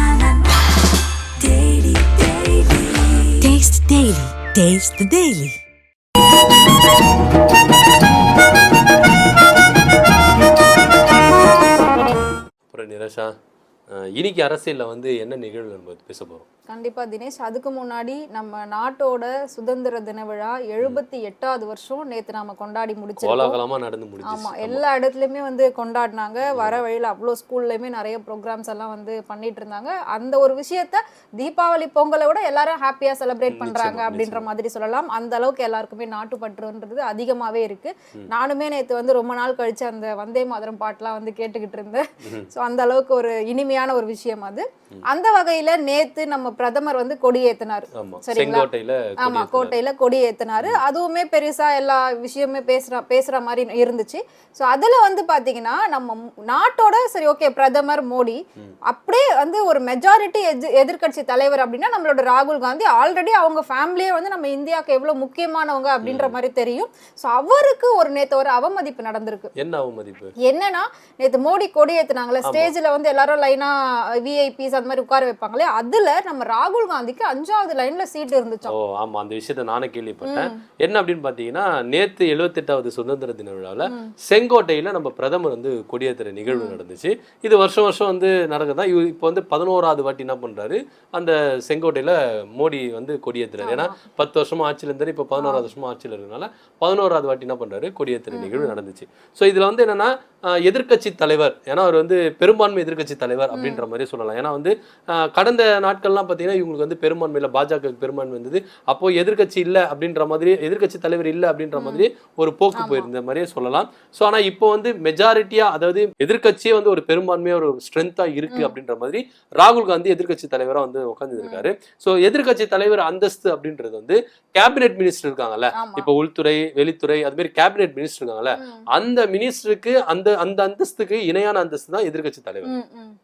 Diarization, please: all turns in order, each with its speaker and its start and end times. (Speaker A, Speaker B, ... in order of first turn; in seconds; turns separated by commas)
Speaker A: 1.5-2.9, Speaker B: 3.4-5.6, Speaker C: 12.7-13.3, Speaker C: 13.9-16.4, Speaker A: 16.7-23.6, Speaker C: 23.2-24.8, Speaker A: 24.2-48.6, Speaker C: 26.5-26.8, Speaker C: 33.5-34.5, Speaker C: 42.2-42.5, Speaker C: 48.0-49.8, Speaker A: 49.2-69.5, Speaker C: 66.0-66.3, Speaker C: 69.6-70.3, Speaker A: 70.5-78.7, Speaker C: 72.4-72.7, Speaker C: 78.7-132.7, Speaker A: 80.2-80.6, Speaker A: 83.8-84.1, Speaker A: 86.5-86.8, Speaker A: 93.6-94.0, Speaker A: 95.4-95.7, Speaker A: 98.3-98.8, Speaker A: 103.5-103.8, Speaker A: 111.7-112.0, Speaker A: 112.8-113.1, Speaker A: 118.5-118.7, Speaker A: 121.4-121.7, Speaker A: 125.7-126.1, Speaker A: 128.6-128.8, Speaker A: 132.6-133.2